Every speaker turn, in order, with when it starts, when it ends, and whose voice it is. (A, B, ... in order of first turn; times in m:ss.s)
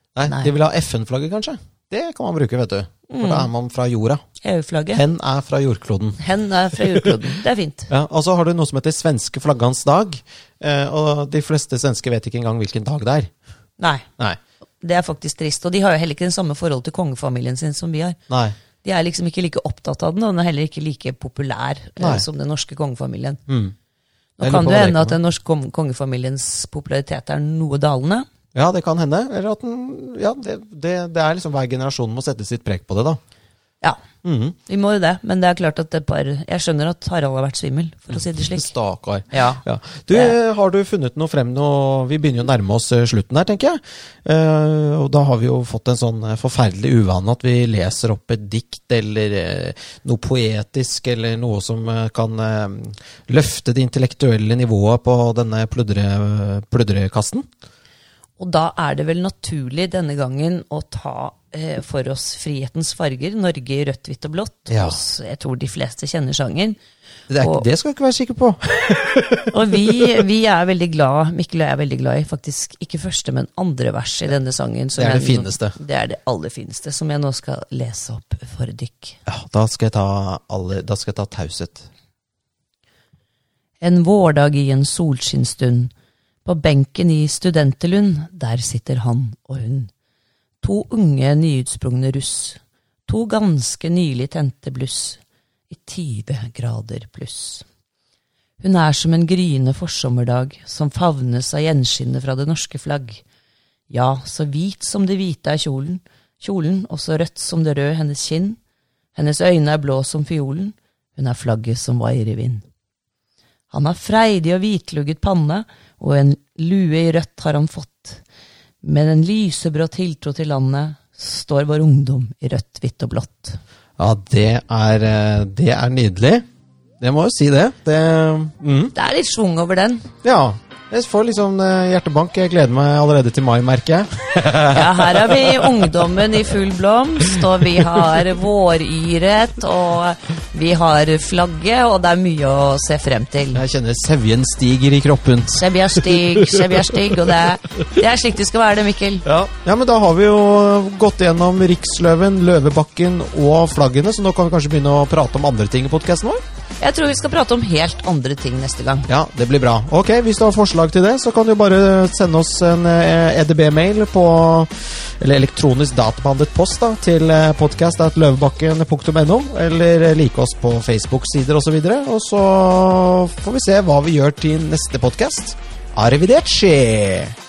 0:00.2-0:04.2 A
0:03.1-0:03.5 B
0:04.4-0:05.0 B
0:04.9-0:07.1 A
0:06.2-0:07.9 B
0:07.9-0:13.3 A
0:13.8-0:14.1 B
0:14.8-0:18.2 B
0:18.3-0:18.6 A
0:18.8-0:23.4 B
0:22.0-0:22.2 A
0:23.5-0:23.8 A
0:24.4-0:28.3 B
0:24.4-0:25.2 A
0:28.5-0:33.2 A
0:34.2-0:34.6 A
0:34.7-0:38.7 B
0:38.1-0:57.5 A
0:39.3-0:40.4 B
0:58.4-1:06.8 B
1:04.7-1:05.0 A
1:07.3-1:10.2 A
1:07.4-1:07.7 B
1:09.5-1:19.2 B
1:15.0-1:15.8 A
1:19.3-1:21.9 A
1:23.8-1:25.9 B
1:26.4-1:29.9 B
1:30.6-1:37.7 B
1:38.6-1:43.2 B
1:43.9-1:48.6 B
1:49.2-1:52.6 B
1:53.7-1:58.2 B
1:58.8-2:03.6 B
2:04.0-2:06.4 A
2:07.0-2:08.9 A
2:09.0-2:10.1 B
2:10.2-2:16.1 A
2:14.7-2:23.6 B
2:17.3-2:18.2 A
2:23.5-2:27.3 A
2:25.6-2:29.2 B
2:29.2-2:36.4 A
2:36.8-2:39.1 B
2:39.1-2:57.4 A